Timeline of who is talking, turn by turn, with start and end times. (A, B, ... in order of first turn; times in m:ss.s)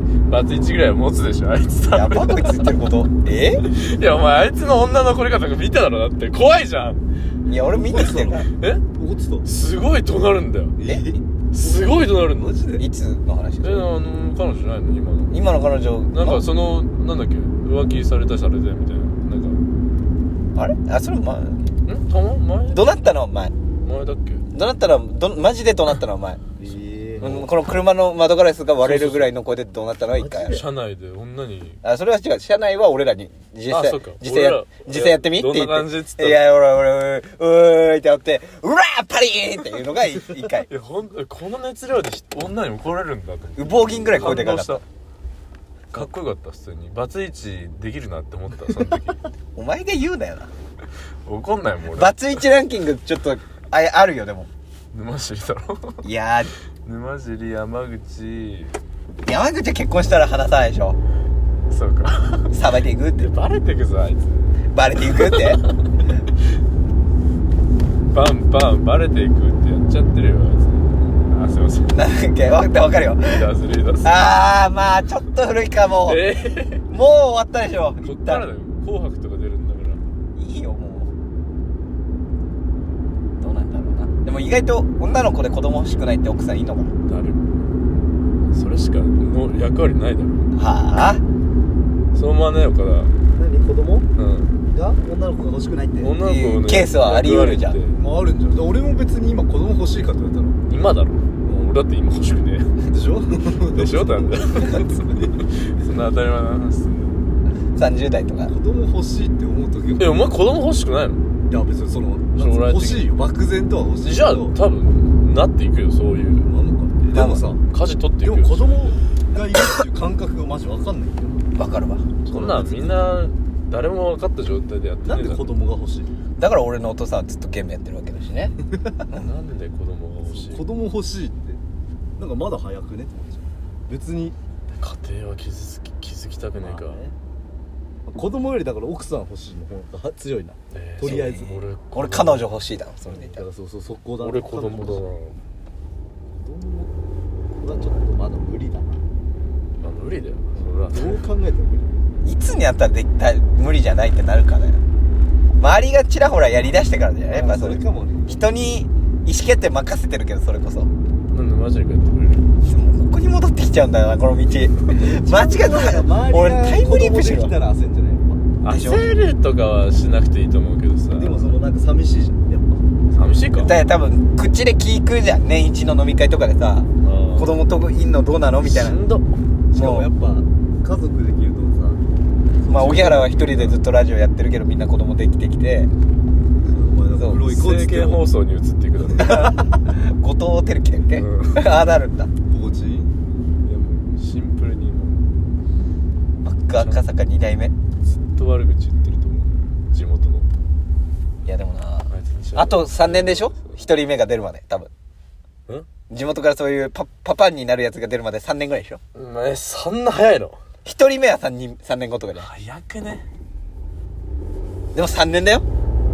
0:00.3-0:02.7 A
0:01.9-0:03.6 B
0:03.6-0:07.0 A
0:07.5-0:08.5 B
0:07.6-0:09.5 C
0:08.6-0:08.8 A
0:09.4-0:10.8 A
0:10.8-0:11.2 C
0:11.5-0:12.6 A
0:11.8-0:12.8 C
0:12.8-0:13.9 B
0:13.6-0:15.3 A
0:15.3-0:16.4 B
0:16.1-0:19.6 A
0:20.5-0:21.7 B
0:21.8-0:22.9 A
0:22.7-0:23.5 B
0:23.8-0:24.4 A
0:24.5-0:26.4 B
0:26.6-0:27.4 C
0:27.2-0:27.5 A
0:27.2-0:30.6 B
0:28.8-0:29.3 A
0:30.1-0:30.6 C
0:30.4-0:31.8 A
0:31.8-0:40.7 B
0:33.7-0:36.4 A
0:40.7-0:44.8 A
0:43.6-0:44.8 B
0:45.9-0:49.2 A
0:49.6-0:50.5 B
0:51.2-0:52.2 A
0:51.9-0:54.5 B
0:54.9-0:56.0 A
0:56.0-0:56.5 B
0:56.8-0:58.8 A
0:59.2-1:01.0 B
1:01.7-1:02.5 A
1:02.5-1:03.3 B
1:03.2-1:04.5 A
1:04.7-1:05.6 B
1:05.0-1:05.6 A
1:08.1-1:12.0 A
1:11.9-1:13.4 B
1:13.2-1:14.2 A
1:14.0-1:16.2 B
1:16.0-1:16.8 A
1:16.9-1:18.4 B
1:18.0-1:20.0 A
1:20.4-1:21.1 B
1:23.4-1:26.9 B
1:27.0-1:27.6 A
1:28.5-1:30.5 A
1:30.5-1:31.2 B
1:32.1-1:33.1 A
1:33.3-1:34.1 C
1:34.2-1:34.5 A
1:34.7-1:36.2 C
1:36.0-1:38.0 A
1:36.2-1:37.8 B
1:37.9-1:40.6 C
1:40.7-1:42.7 A
1:41.4-1:41.7 C
1:42.8-1:45.4 C
1:43.7-1:47.2 A
1:47.7-1:48.5 B
1:48.5-1:50.3 C
1:50.0-1:51.2 A
1:51.5-1:54.5 C
1:52.4-1:53.1 A
1:54.0-1:56.5 A
1:56.4-1:57.6 C
1:57.1-1:57.4 B
1:57.2-1:58.8 A
1:58.2-2:01.5 C
2:01.5-2:02.1 B
2:02.2-2:02.9 C
2:02.2-2:05.6 A
2:05.0-2:06.1 C
2:06.4-2:08.5 B
2:08.7-2:09.0 C
2:09.1-2:10.7 A
2:10.3-2:11.6 C
2:12.2-2:14.4 C
2:14.8-2:17.0 A
2:16.6-2:17.1 C
2:18.0-2:21.6 C
2:20.7-2:22.4 A
2:21.9-2:23.4 B
2:23.1-2:25.0 C
2:24.2-2:25.4 A
2:26.3-2:26.9 C
2:27.6-2:29.0 C
2:29.8-2:31.2 A
2:30.6-2:32.0 C
2:32.2-2:34.8 B
2:35.6-2:40.9 B
2:37.3-2:38.2 C
2:41.3-2:42.5 A
2:42.6-2:47.5 B
2:45.0-2:48.5 C
2:48.6-2:51.6 A
2:48.7-2:49.0 B
2:51.2-2:52.8 C
2:53.1-2:53.7 A
2:53.6-2:59.0 B
2:57.0-2:57.6 A
2:58.6-2:59.4 A
2:59.7-3:02.0 C
2:59.8-3:00.0 B
3:02.6-3:03.7 C
3:02.7-3:05.9 B
3:06.6-3:08.2 C
3:07.3-3:09.5 A
3:09.2-3:12.3 B
3:09.2-3:09.5 C
3:11.1-3:11.6 A
3:12.5-3:13.1 C
3:13.6-3:15.2 A
3:16.4-3:17.7 B
3:16.7-3:17.0 A
3:18.0-3:20.5 A
3:21.4-3:24.9 B
3:22.1-3:23.8 A
3:26.1-3:29.0 B
3:29.1-3:30.6 A
3:30.8-3:32.5 B
3:32.4-3:33.2 A
3:34.9-3:35.6 B